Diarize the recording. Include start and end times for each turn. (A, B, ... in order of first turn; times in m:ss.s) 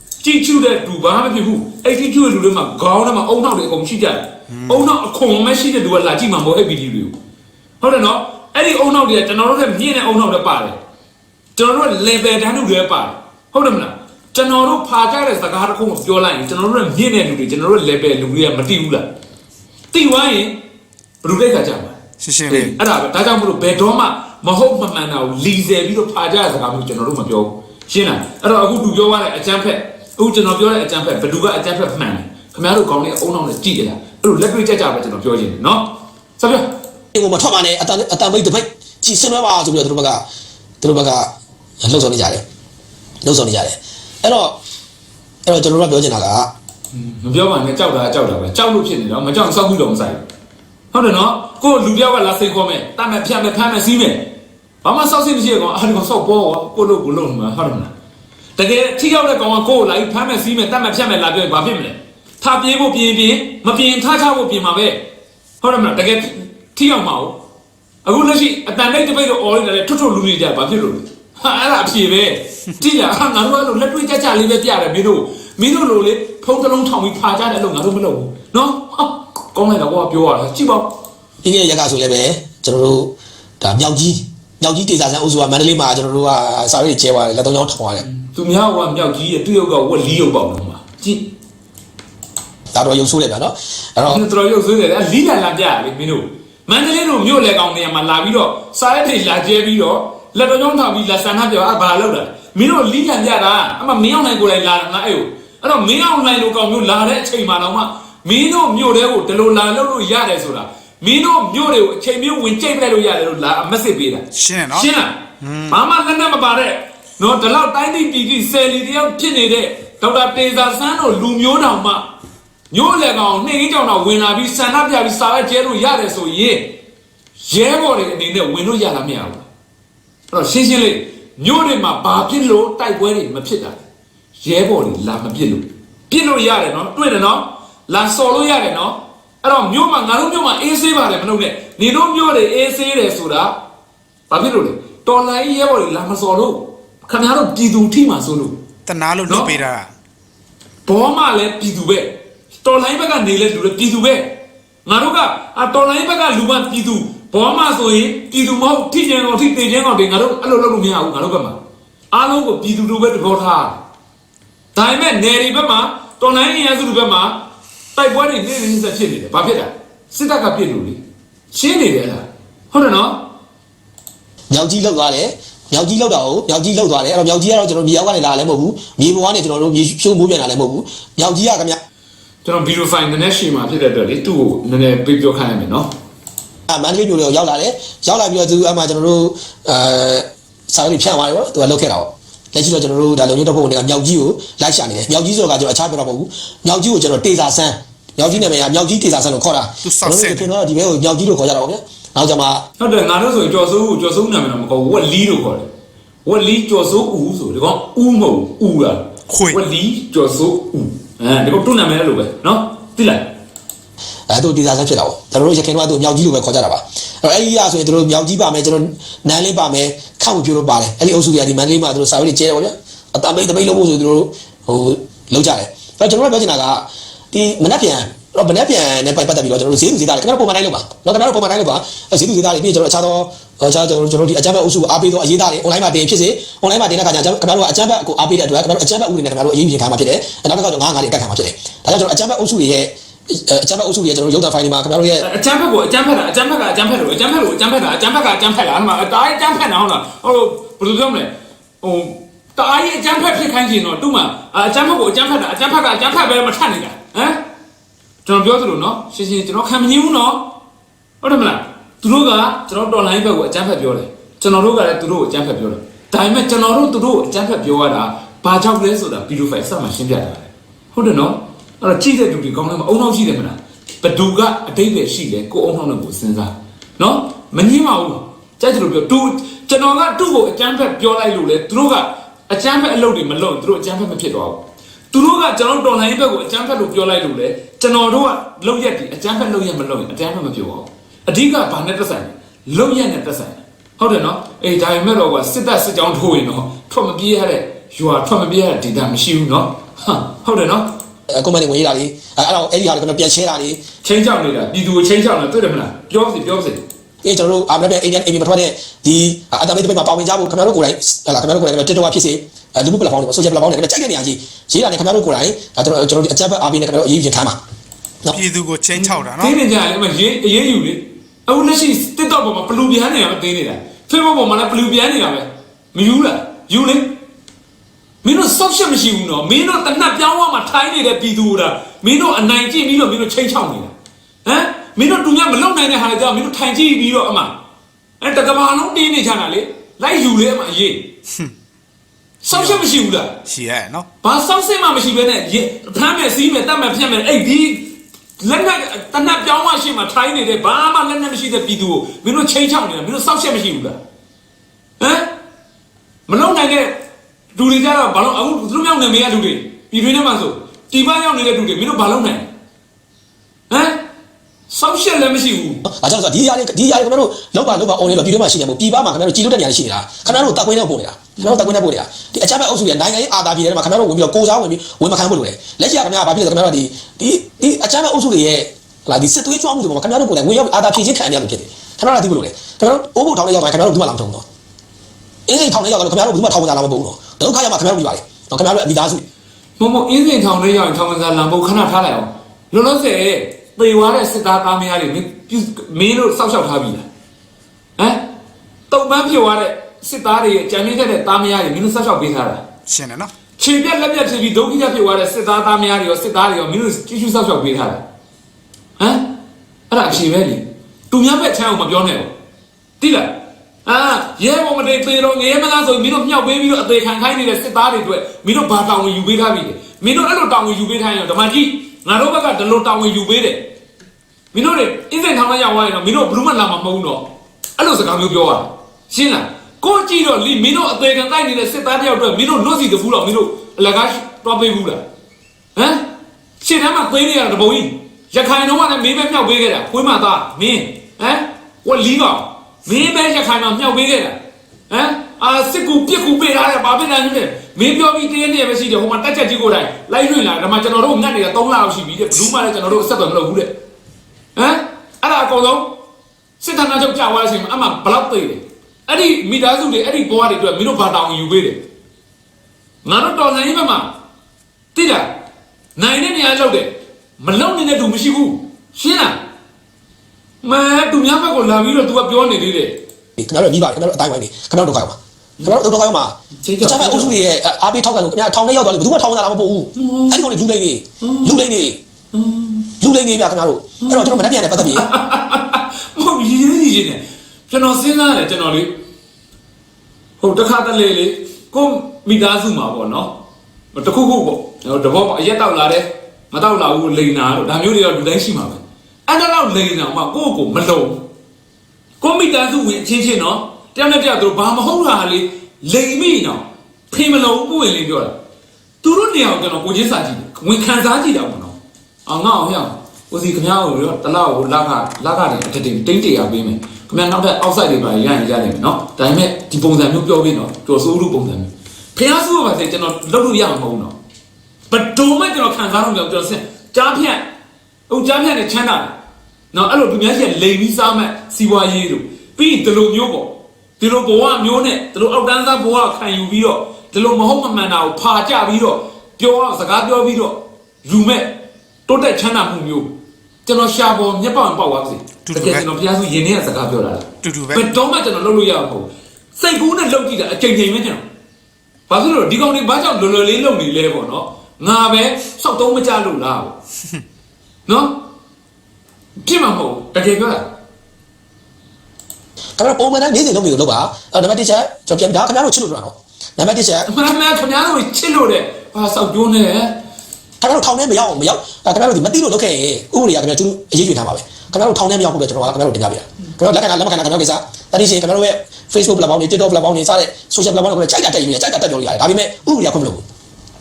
0:00.2-0:07.1 A
0:04.5-0:04.9 B
0:07.8-0:10.8 A
0:11.6-0:19.1 A
0:19.9-0:20.6 A
0:21.2-0:22.0 A
0:22.2-0:22.7 B
0:22.5-0:36.7 A
0:37.1-0:40.2 C
0:40.8-0:41.3 C
0:41.8-0:42.4 C
0:43.2-0:44.6 C
0:45.4-0:46.5 C
0:46.9-0:50.2 A
0:50.9-0:54.3 A
0:54.8-0:57.9 A
0:58.6-1:05.1 A
1:05.6-1:07.4 A
1:08.0-1:20.9 A
1:21.4-1:28.0 C
1:28.0-1:31.3 A
1:32.7-1:34.2 C
1:34.0-1:55.1 A
1:54.3-1:54.9 B
1:55.4-1:55.8 B
1:55.7-2:02.0 A
2:02.7-2:06.8 A
2:07.4-2:09.4 A
2:10.3-2:13.8 A
2:14.4-2:23.5 A
2:24.3-2:28.6 A
2:28.8-2:29.9 B
2:30.9-2:41.6 A
2:42.1-2:43.8 A
2:44.7-2:51.0 A
2:51.5-2:53.3 A
2:54.5-3:01.8 C
3:02.4-3:05.9 A
3:06.7-3:22.6 C
3:19.8-3:20.5 B
3:22.8-3:25.7 A
3:26.2-3:33.3 A
3:29.3-3:29.6 B
3:34.3-4:05.2 C
4:05.2-4:17.4 A
4:18.2-4:20.5 A
4:21.2-5:01.0 A
5:01.3-5:03.8 C
5:04.0-5:06.8 A
5:07.2-5:17.6 C
5:18.3-5:19.6 B
5:19.0-5:27.1 A
5:28.2-5:33.9 A
5:34.4-5:37.5 A
5:38.2-5:41.1 A
5:42.4-5:43.3 A
5:42.5-5:42.9 B
5:43.4-5:44.1 B
5:44.2-5:54.0 A
5:55.0-5:55.3 A
5:56.3-5:57.0 A
5:57.5-6:02.5 A
6:03.7-6:04.0 A
6:04.7-6:05.8 A
6:05.9-6:24.4 C
6:11.4-6:11.7 A
6:25.5-6:29.2 C
6:29.8-6:37.0 A
6:38.0-6:38.2 A
6:38.9-6:42.6 A
6:42.9-6:43.3 B
6:43.6-6:48.0 A
6:49.0-6:49.3 A
6:49.9-6:52.3 A
6:53.0-7:03.7 A
7:04.5-7:07.2 A
7:07.8-7:15.0 A
7:15.8-7:16.0 A
7:16.6-7:24.4 A
7:24.9-7:33.8 A
7:34.6-7:36.0 A
7:36.6-7:41.8 A
7:43.0-7:44.1 A
7:44.9-7:45.3 A
7:46.0-7:49.4 A
7:50.6-7:53.0 A
7:53.4-8:02.0 C
7:56.6-7:57.4 A
8:00.0-8:00.5 A
8:01.2-8:01.6 A
8:02.3-8:02.9 A
8:03.0-8:05.1 C
8:04.0-8:09.0 A
8:10.4-8:13.4 A
8:13.9-8:21.2 A
8:22.2-8:28.3 A
8:29.0-8:44.1 A
8:44.9-8:47.4 A
8:48.1-8:49.1 A
8:49.7-9:01.6 A
9:02.1-9:03.1 A
9:03.6-9:11.2 A
9:05.4-9:05.9 B
9:07.4-9:07.9 B
9:12.1-9:16.8 A
9:17.9-9:18.2 A
9:19.4-9:20.7 A
9:22.8-9:27.1 C
9:27.1-9:30.0 A
9:30.6-9:43.2 C